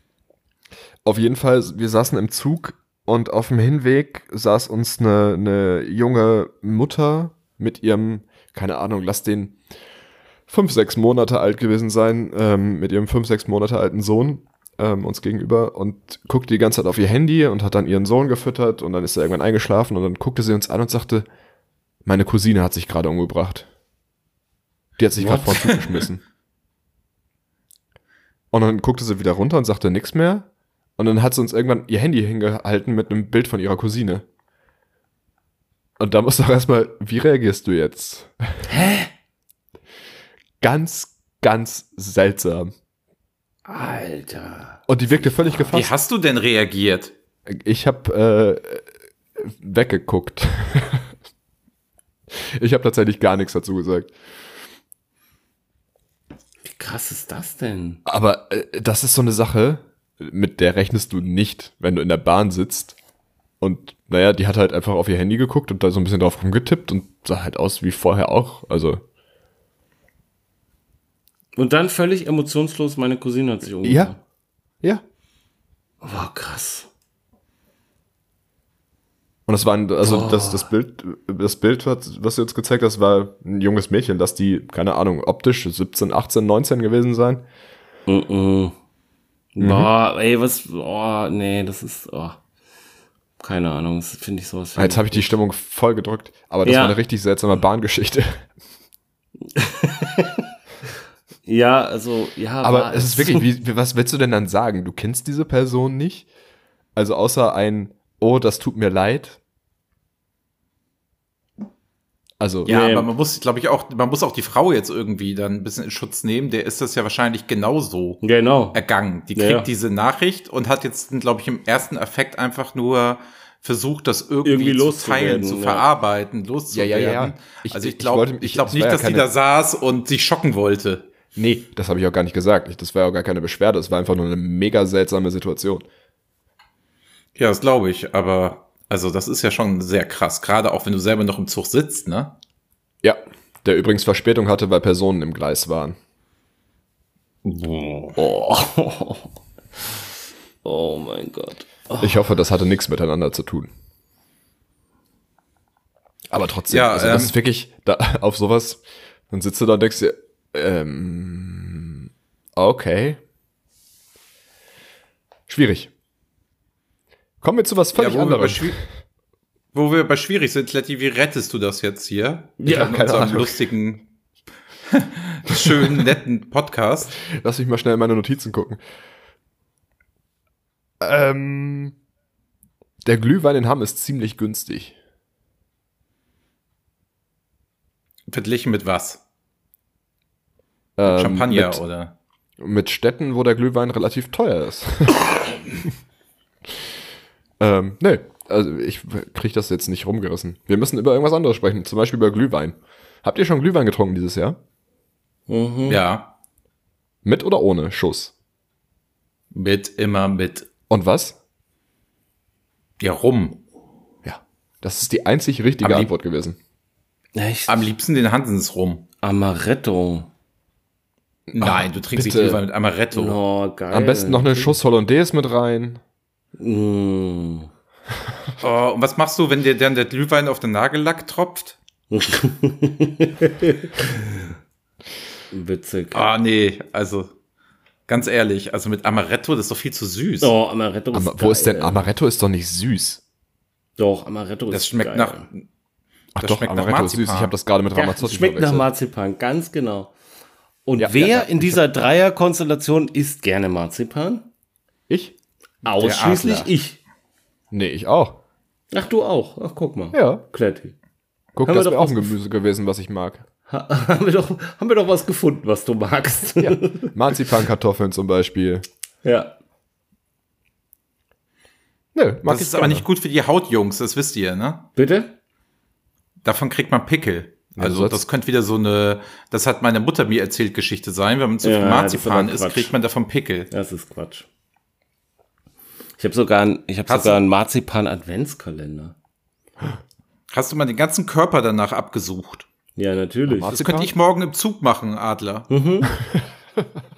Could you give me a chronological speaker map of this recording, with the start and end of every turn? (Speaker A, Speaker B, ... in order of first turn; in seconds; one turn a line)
Speaker A: 1.0-9.6
Speaker A: 10.5-21.3
Speaker A: 22.0-23.7
Speaker A: 25.0-26.2
Speaker B: 25.2-25.5
Speaker A: 28.5-34.2
Speaker A: 36.0-38.6
Speaker B: 38.7-39.1
Speaker A: 40.6-42.7
Speaker B: 43.6-44.8
Speaker A: 44.9-45.9
Speaker C: 45.7-47.1
Speaker A: 47.5-51.1
Speaker A: 52.3-54.2
Speaker B: 56.6-58.0
Speaker A: 58.0-63.0
Speaker A: 63.6-69.0
Speaker B: 71.6-74.2
Speaker A: 73.8-74.1
Speaker B: 76.0-76.9
Speaker A: 79.5-87.4
Speaker B: 80.0-80.7
Speaker B: 88.1-88.7
Speaker B: 89.5-92.4
Speaker A: 89.6-89.9
Speaker B: 93.4-95.3
Speaker A: 94.8-98.5
Speaker B: 96.6-97.0
Speaker B: 99.5-100.4
Speaker B: 101.4-103.5
Speaker A: 102.6-106.3
Speaker A: 107.0-109.4
Speaker A: 112.4-112.7
Speaker B: 112.7-113.1
Speaker C: 112.7-118.2
Speaker B: 118.2-118.8
Speaker C: 118.7-131.0
Speaker B: 119.3-119.7
Speaker B: 124.4-125.8
Speaker A: 126.7-129.3
Speaker A: 131.3-135.8
Speaker C: 137.3-142.3
Speaker A: 143.0-145.9
Speaker C: 147.4-148.2
Speaker B: 148.2-149.3
Speaker B: 150.6-152.2
Speaker A: 152.0-153.7
Speaker A: 156.3-163.2
Speaker C: 156.7-157.3
Speaker A: 165.5-165.9
Speaker A: 167.4-168.8
Speaker C: 167.9-168.8
Speaker C: 169.7-174.1
Speaker B: 172.6-173.0
Speaker A: 172.7-173.6
Speaker C: 174.9-177.1
Speaker A: 175.5-176.1
Speaker A: 177.2-178.8
Speaker A: 181.0-181.9
Speaker A: 183.0-184.9
Speaker C: 188.3-189.2
Speaker A: 191.0-191.8
Speaker C: 191.0-192.1
Speaker A: 192.6-195.9
Speaker A: 197.6-204.6
Speaker B: 205.5-206.0
Speaker C: 205.9-206.3
Speaker A: 207.2-208.3
Speaker C: 209.5-210.7
Speaker A: 210.9-211.4
Speaker C: 213.0-213.6
Speaker A: 214.2-216.6
Speaker C: 215.8-216.1
Speaker B: 217.3-217.9
Speaker C: 217.7-219.1
Speaker B: 219.2-220.3
Speaker A: 221.5-222.6
Speaker C: 221.5-223.4
Speaker B: 223.1-224.8
Speaker A: 223.9-226.0
Speaker B: 226.6-227.7
Speaker C: 228.6-231.8
Speaker B: 232.1-234.5
Speaker B: 235.5-236.2
Speaker C: 236.1-237.3
Speaker C: 238.1-240.5
Speaker B: 240.4-242.0
Speaker A: 241.1-243.2
Speaker B: 244.0-245.5
Speaker C: 244.7-245.6
Speaker A: 246.3-248.9
Speaker C: 246.4-247.5
Speaker B: 247.9-250.1
Speaker B: 250.8-254.4
Speaker A: 251.0-251.8
Speaker A: 255.1-255.3
Speaker B: 255.8-257.0
Speaker C: 256.0-256.7
Speaker A: 257.7-258.4
Speaker B: 258.9-260.9
Speaker A: 260.1-260.4
Speaker A: 261.6-263.4
Speaker B: 261.6-262.3
Speaker B: 263.7-267.1
Speaker A: 266.6-268.8
Speaker B: 269.2-269.5
Speaker A: 272.1-273.1
Speaker C: 272.4-274.9
Speaker B: 274.9-275.3
Speaker C: 276.4-283.7
Speaker A: 277.8-278.2
Speaker B: 281.6-282.9
Speaker B: 283.7-284.4
Speaker B: 286.2-289.1
Speaker C: 287.1-287.4
Speaker C: 290.5-292.7
Speaker B: 293.0-293.8
Speaker A: 293.5-294.1
Speaker C: 293.7-295.7
Speaker B: 295.7-296.1